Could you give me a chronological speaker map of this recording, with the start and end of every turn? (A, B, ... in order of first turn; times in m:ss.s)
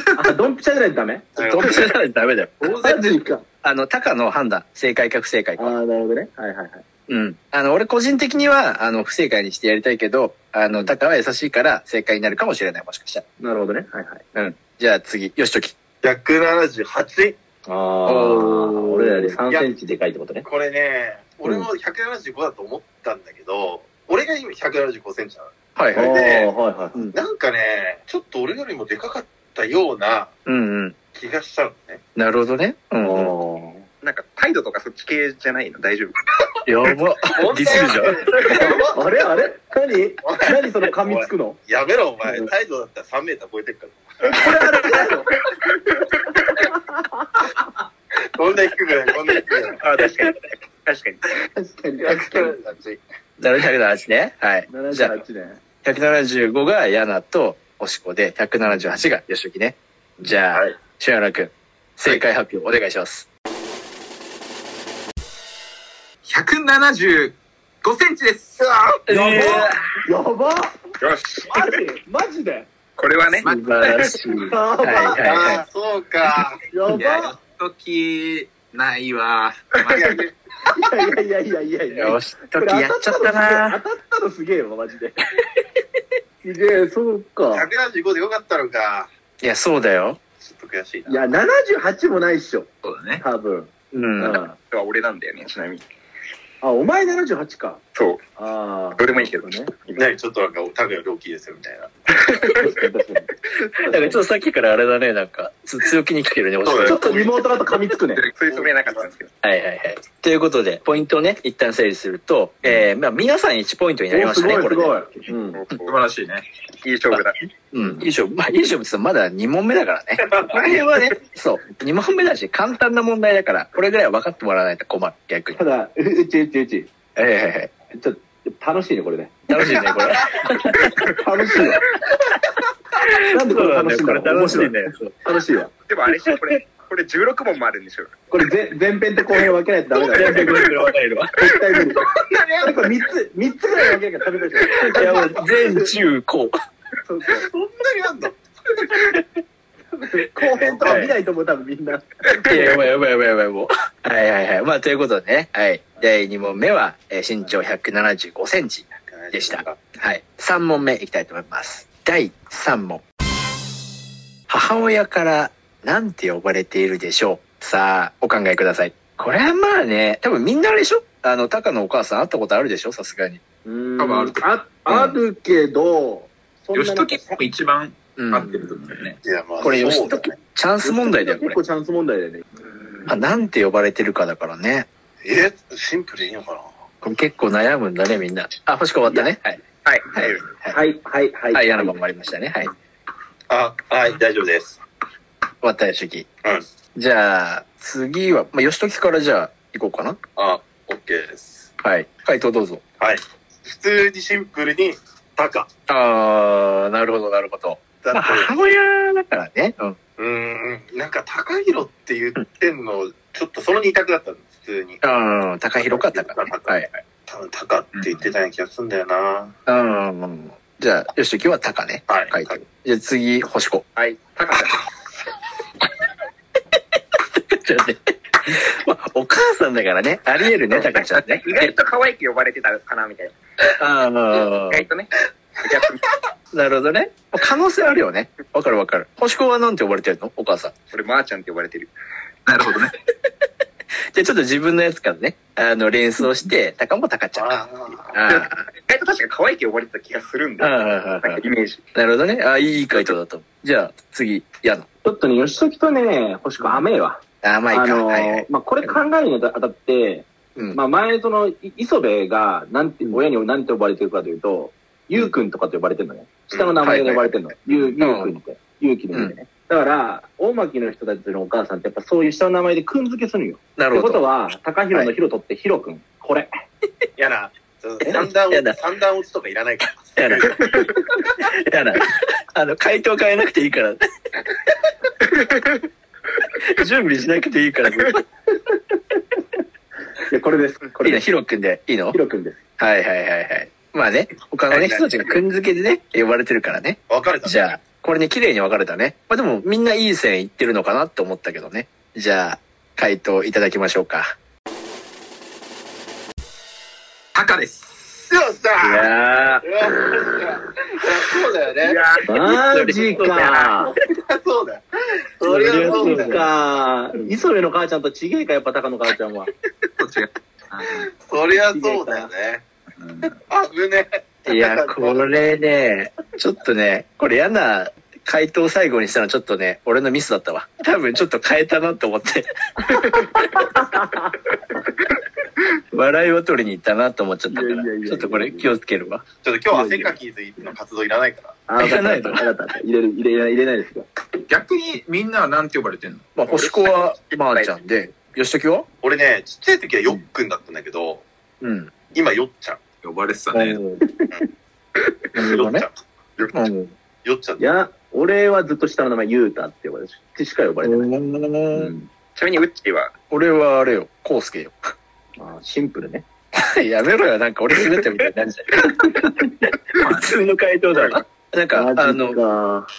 0:00.1-0:01.4 A
0:01.4-0:01.9 B
0:01.4-0:03.0 C
0:02.6-0:03.4 A
0:03.6-0:05.8 C
0:05.6-0:06.8 A
0:07.1-0:13.2 C
0:13.4-0:14.2 A
0:14.3-0:15.8 C
0:16.0-0:17.4 B
0:17.7-0:20.4 A
0:18.0-0:19.4 C
0:20.4-0:26.5 B
0:25.8-0:26.2 C
0:25.9-0:27.0 A
0:27.1-0:30.3 B
0:30.4-0:31.0 C
0:31.1-0:32.0 B
0:32.1-0:33.3 C
0:33.0-0:33.9 A
0:34.0-0:36.2 D
0:36.6-0:38.3 C
0:37.3-0:39.1 B
0:38.4-0:41.6 A
0:40.2-0:44.9 B
0:44.2-0:45.4 A
0:46.7-0:47.6 A
0:48.2-0:49.8 B
0:49.8-0:51.2 D
0:51.5-0:52.5 A
0:52.0-0:53.0 B
0:53.4-0:55.2 C
0:54.7-0:55.6 A
0:55.8-1:03.3 C
1:06.2-1:08.7 E
1:09.1-1:09.8 C
1:09.1-1:10.9 A
1:11.0-1:11.6 D
1:11.4-1:12.7 A
1:13.0-1:13.5 D
1:13.4-1:14.2 E
1:13.4-1:15.6 C
1:14.4-1:15.2 A
1:15.2-1:16.6 B
1:16.7-1:17.4 A
1:16.9-1:20.2 E
1:19.9-1:20.3 B
1:20.7-1:25.2 A
1:21.9-1:23.8 C
1:26.4-1:27.6 A
1:27.5-1:29.1 B
1:29.4-1:30.2 C
1:30.4-1:31.2 B
1:31.1-1:34.6 A
1:32.8-1:33.2 E
1:33.9-1:34.4 C
1:34.7-1:35.8 D
1:36.6-1:37.8 A
1:37.9-1:38.2 D
1:38.4-1:39.7 A
1:39.0-1:40.0 D
1:40.0-1:41.9 B
1:42.5-1:44.2 A
1:43.9-1:47.1 C
1:46.6-1:47.5 B
1:46.8-1:48.3 A
1:48.2-1:49.3 D
1:48.5-1:49.1 B
1:49.4-1:54.9 C
1:54.1-1:55.6 A
1:55.5-1:56.0 D
1:55.8-1:56.4 E
1:56.8-1:57.5 D
1:57.1-2:05.6 C
2:05.5-2:06.9 A
2:07.2-2:07.7 C
2:07.9-2:09.9 A
2:09.5-2:11.1 C
2:10.9-2:11.8 A
2:13.0-2:15.1 C
2:13.2-2:15.7 A
2:15.9-2:18.1 D
2:18.3-2:20.6 A
2:20.1-2:21.4 C
2:21.4-2:25.4 A
2:22.1-2:22.9 B
2:24.7-2:25.8 B
2:24.7-2:26.5 C
2:27.0-2:27.5 A
2:27.4-2:28.9 B
2:30.0-2:32.6 A
2:30.5-2:31.1 B
2:30.8-2:31.1 C
2:32.5-2:43.0 C
2:39.0-2:39.8 B
2:44.5-2:53.4 C
2:53.6-2:57.4 A
2:54.0-2:54.4 E
2:54.9-2:55.2 C
2:56.7-2:59.2 E
2:58.2-2:58.5 C
2:59.2-3:00.3 B
2:59.6-3:01.6 C
3:00.8-3:02.4 A
3:03.1-3:04.9 C
3:05.2-3:06.7 B
3:07.0-3:09.6 C
3:09.8-3:10.4 D
3:10.1-3:10.8 C
3:10.7-3:11.9 A
3:11.5-3:12.7 C
3:13.5-3:14.8 B
3:15.6-3:16.3 C
3:16.9-3:20.2 C
3:20.4-3:21.7 B
3:21.8-3:22.8 C
3:23.0-3:25.7 B
3:25.9-3:30.0 C
3:28.0-3:28.6 B
3:30.2-3:35.0 B
3:35.0-3:36.9 C
3:35.8-3:39.5 B
3:37.9-3:38.3 E
3:39.6-3:43.8 C
3:42.1-3:42.6 B
3:44.0-3:44.8 D
3:47.2-3:51.6 C
3:50.7-3:53.3 D
3:53.6-3:54.8 C
3:54.7-3:55.1 D
3:55.6-3:56.0 D
3:56.5-4:00.7 C
4:00.9-4:01.9 D
4:02.4-4:02.9 E
4:04.1-4:07.5 C
4:07.3-4:08.2 B
4:08.1-4:08.6 C
4:08.3-4:11.8 D
4:10.6-4:14.9 C
4:15.0-4:36.5 A
4:17.4-4:18.9 C
4:26.8-4:28.3 C
4:33.8-4:34.2 C
4:37.2-4:40.9 B
4:38.0-4:38.8 C
4:40.2-4:44.0 C
4:46.6-4:48.2 C
4:50.3-4:51.2 A
4:51.0-4:52.2 C
4:52.1-4:52.6 A
4:52.8-5:04.3 C
4:54.7-4:55.3 B
4:57.1-4:57.6 B
5:07.3-5:08.2 E
5:08.3-5:12.0 B
5:08.8-5:09.6 C
5:12.2-5:13.9 A
5:12.7-5:13.2 C
5:13.9-5:14.8 B
5:15.4-5:16.4 B
5:15.4-5:16.4 C
5:15.5-5:19.5 A
5:20.0-5:21.1 E
5:21.2-5:22.6 B
5:21.7-5:22.3 A
5:23.0-5:23.4 E
5:23.5-5:25.3 B
5:24.5-5:33.8 C
5:33.4-5:34.3 A
5:35.9-5:39.2 C
5:37.5-5:38.7 A
5:39.4-5:41.6 B
5:39.7-5:40.2 A
5:41.7-5:44.1 A
5:41.8-5:42.4 C
5:44.5-5:46.3 E
5:46.4-5:48.9 C
5:46.5-5:47.7 D
5:49.0-5:51.2 B
5:51.6-5:51.9 C
5:52.1-5:52.8 B
5:53.0-5:53.8 E
5:53.5-5:54.0 C
5:54.0-5:54.3 A
5:55.3-5:55.8 C
5:55.4-5:56.7 B
5:56.5-5:56.9 C
5:57.2-5:57.7 B
5:57.6-6:01.1 A
6:00.8-6:01.9 C
6:01.7-6:02.1 A
6:02.4-6:03.1 D
6:03.3-6:04.8 C
6:05.4-6:06.2 A
6:06.6-6:12.4 C
6:10.0-6:10.3 E
6:11.7-6:12.9 A